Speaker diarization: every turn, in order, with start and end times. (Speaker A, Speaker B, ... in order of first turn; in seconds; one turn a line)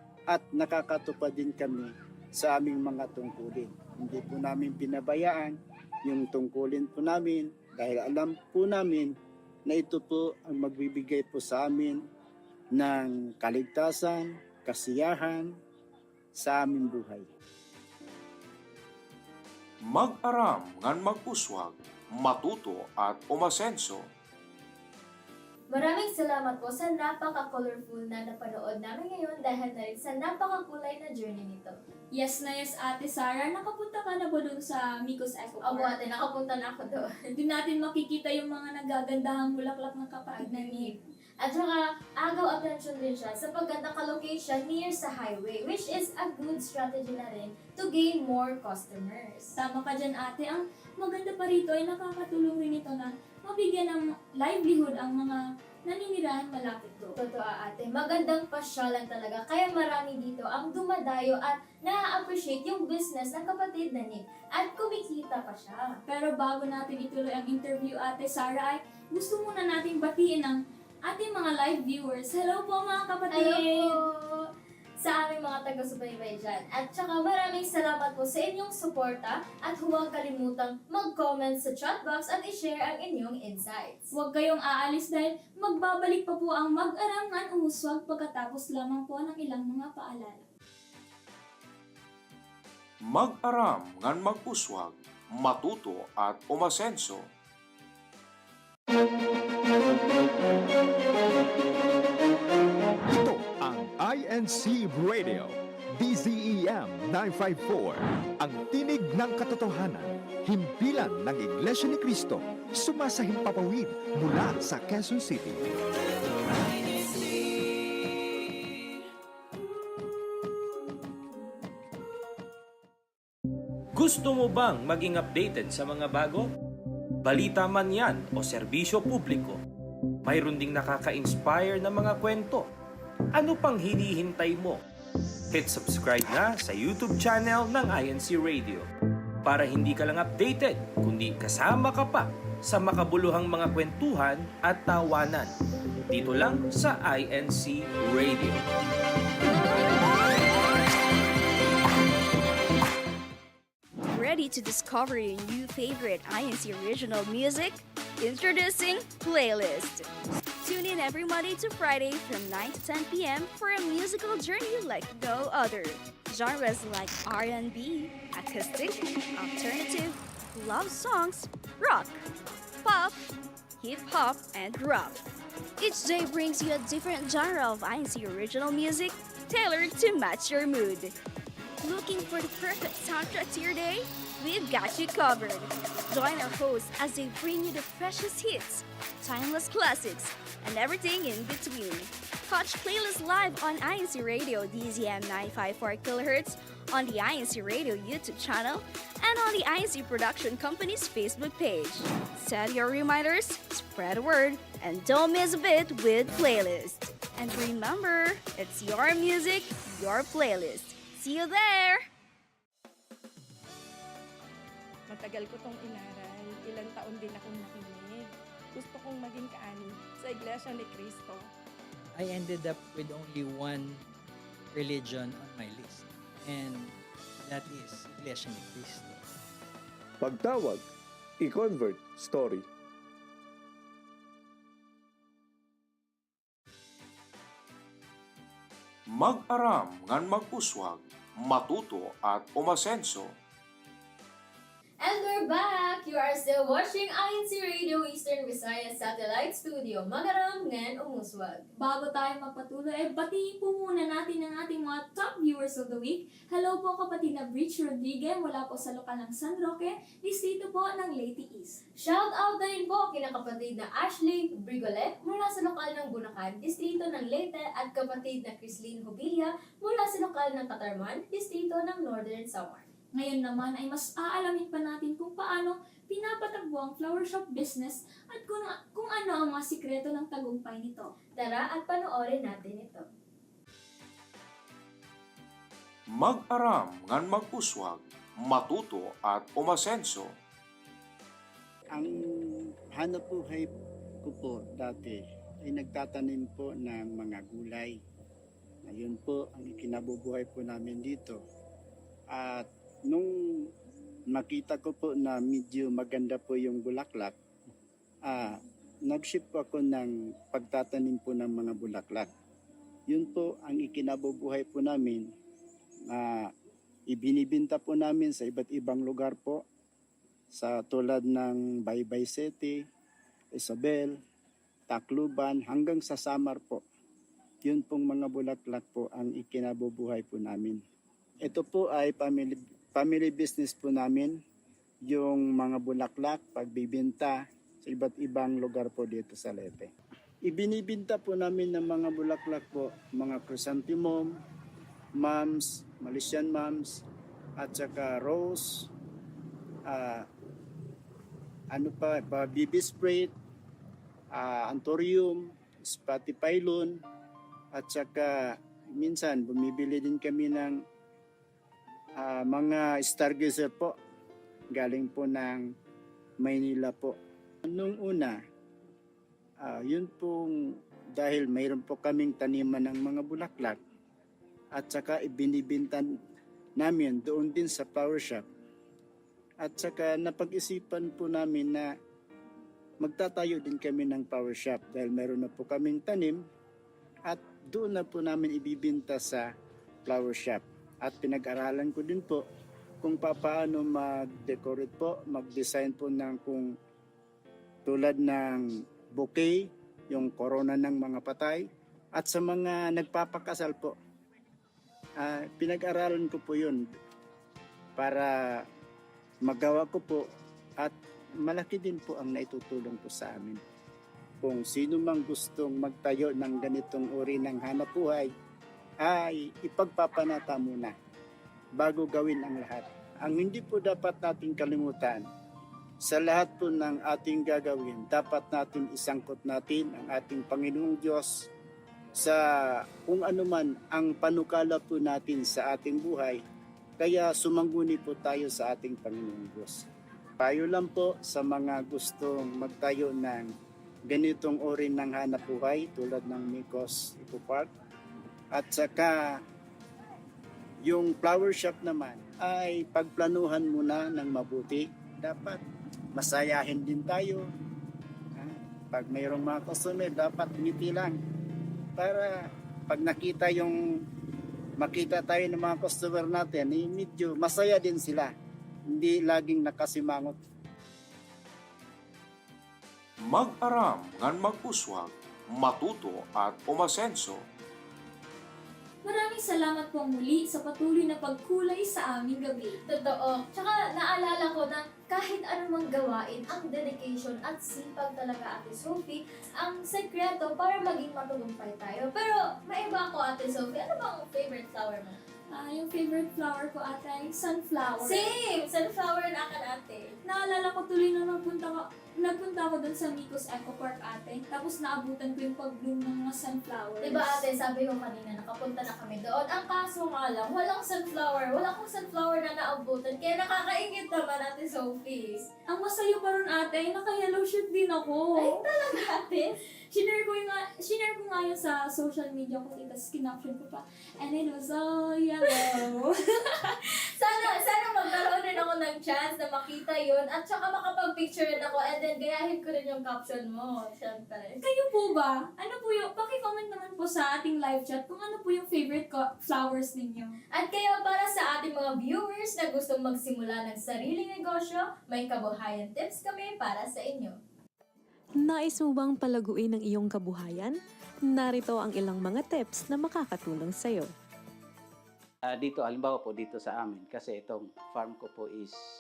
Speaker A: 0.3-9.1
Speaker A: 9.7-12.0
Speaker A: 12.7-15.5
Speaker A: 16.4-17.3
Speaker B: 19.9-24.1
Speaker C: 25.7-31.7
Speaker D: 32.1-35.9
Speaker C: 35.7-37.2
Speaker D: 37.3-40.9
Speaker C: 40.4-49.5
Speaker D: 49.5-57.2
Speaker C: 57.2-66.0
Speaker D: 66.1-74.0
Speaker C: 73.3-74.5
Speaker C: 75.0-84.1
Speaker D: 84.1-90.5
Speaker B: 93.0-97.3
Speaker E: 103.1-115.6
Speaker F: 123.9-126.5
Speaker F: 127.2-129.6
Speaker F: 130.2-132.7
Speaker F: 133.3-134.8
Speaker F: 135.5-138.8
Speaker F: 139.4-145.5
Speaker F: 146.1-148.6
Speaker G: 154.1-160.1
Speaker G: 160.6-172.2
Speaker G: 172.8-173.2
Speaker G: 173.8-175.2
Speaker G: 175.8-181.1
Speaker G: 181.8-212.0
Speaker H: 215.1-221.4
Speaker I: 222.1-224.0
Speaker I: 224.7-229.2
Speaker E: 230.2-230.9
Speaker E: 231.4-232.7
Speaker B: 239.1-243.3
Speaker C: 245.0-251.7
Speaker D: 251.8-261.8
Speaker C: 262.0-272.9
Speaker D: 273.1-281.1
Speaker C: 281.4-283.1
Speaker B: 286.1-290.3
Speaker A: 291.9-293.7
Speaker A: 294.2-297.9
Speaker A: 298.8-301.4
Speaker A: 302.3-303.7
Speaker A: 304.3-307.4
Speaker A: 308.2-312.3
Speaker A: 313.1-315.2
Speaker A: 316.1-316.5
Speaker A: 317.1-319.6
Speaker A: 320.5-322.8
Speaker A: 323.6-324.2
Speaker A: 324.9-326.8
Speaker A: 327.6-330.8
Speaker A: 331.4-334.4
Speaker A: 335.1-339.9
Speaker A: 340.4-344.3
Speaker A: 345.2-347.0
Speaker A: 347.6-348.9
Speaker A: 349.9-350.3
Speaker A: 351.7-353.3
Speaker A: 354.3-357.0
Speaker A: 357.7-360.8
Speaker A: 362.2-363.9
Speaker A: 364.7-365.6
Speaker A: 366.4-368.4
Speaker A: 369.6-370.5
Speaker A: 371.1-373.8
Speaker A: 374.7-376.1
Speaker A: 376.8-378.4
Speaker A: 379.6-381.9
Speaker A: 383.0-386.4
Speaker A: 387.3-389.5
Speaker A: 390.1-392.4
Speaker A: 393.0-396.7
Speaker A: 397.9-401.6
Speaker A: 402.1-403.9
Speaker A: 405.2-406.8
Speaker A: 408.0-408.6
Speaker A: 409.4-410.2
Speaker A: 410.8-413.6
Speaker A: 414.4-418.3
Speaker A: 419.0-420.9
Speaker A: 421.8-425.2
Speaker A: 426.0-431.5
Speaker A: 432.1-436.4
Speaker A: 437.0-439.9
Speaker A: 440.4-443.5
Speaker A: 444.1-447.7
Speaker A: 448.5-449.4
Speaker A: 450.8-455.6
Speaker A: 456.1-457.5
Speaker A: 458.4-461.2
Speaker A: 462.0-463.8
Speaker A: 464.8-468.3
Speaker A: 468.9-470.4
Speaker B: 473.2-477.4
Speaker D: 479.0-482.8
Speaker C: 482.9-495.2
Speaker D: 495.5-498.3
Speaker C: 498.0-500.1
Speaker D: 500.2-507.4
Speaker C: 507.0-515.5
Speaker D: 515.7-518.6
Speaker C: 518.4-519.5
Speaker D: 519.9-527.5
Speaker C: 525.4-525.8
Speaker C: 527.2-534.6
Speaker D: 534.6-540.4
Speaker C: 540.5-547.4
Speaker J: 548.4-550.8
Speaker J: 551.3-554.1
Speaker K: 555.5-558.8